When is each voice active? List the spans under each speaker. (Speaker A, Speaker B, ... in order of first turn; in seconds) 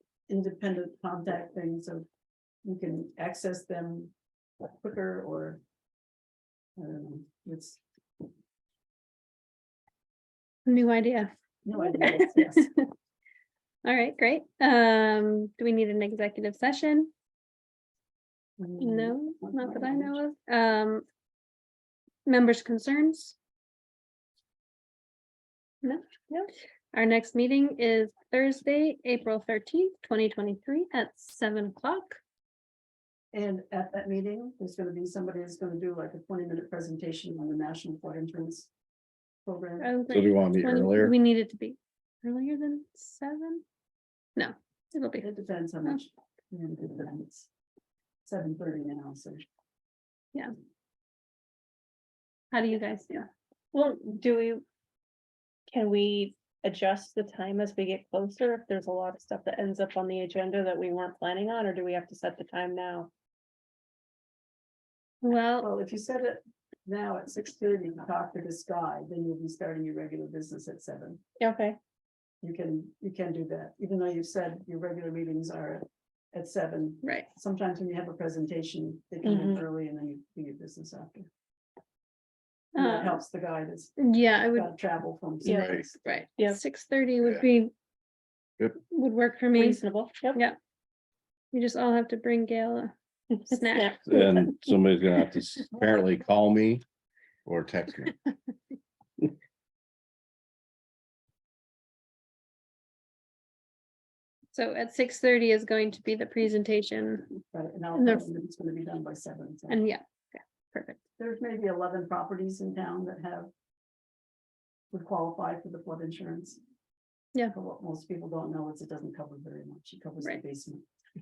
Speaker A: 0.3-2.0, 2.6-4.1, 4.8-5.6, 6.8-7.8, 11.6-12.7, 18.6-20.2, 33.3-38.7, 39.4-40.0, 45.2-47.5, 48.2-49.5, 65.6-71.2, 72.4-81.3, 82.8-84.0, 84.5-86.0, 107.5-109.8, 111.2-113.5, 114.9-116.6, 117.5-120.8
Speaker B: 10.7-12.9, 13.8-17.1, 18.8-21.0, 22.2-23.4, 25.8-26.1, 26.9-32.2, 39.8-43.6, 44.4-45.3, 52.5-53.3, 65.2-65.7, 77.0-77.3, 82.7-83.2, 84.0-84.7, 85.8-87.7, 88.8-89.8, 91.5-92.9, 93.5-94.2, 104.5-107.3, 107.9-108.3, 109.7-111.0
Speaker C: 40.1-41.1, 85.4-85.8, 94.0-96.8, 97.4-98.1
Speaker D: 53.7-54.6, 55.7-63.1, 71.4-71.8, 79.2-79.6, 85.4-85.8, 89.5-90.4, 93.3-94.6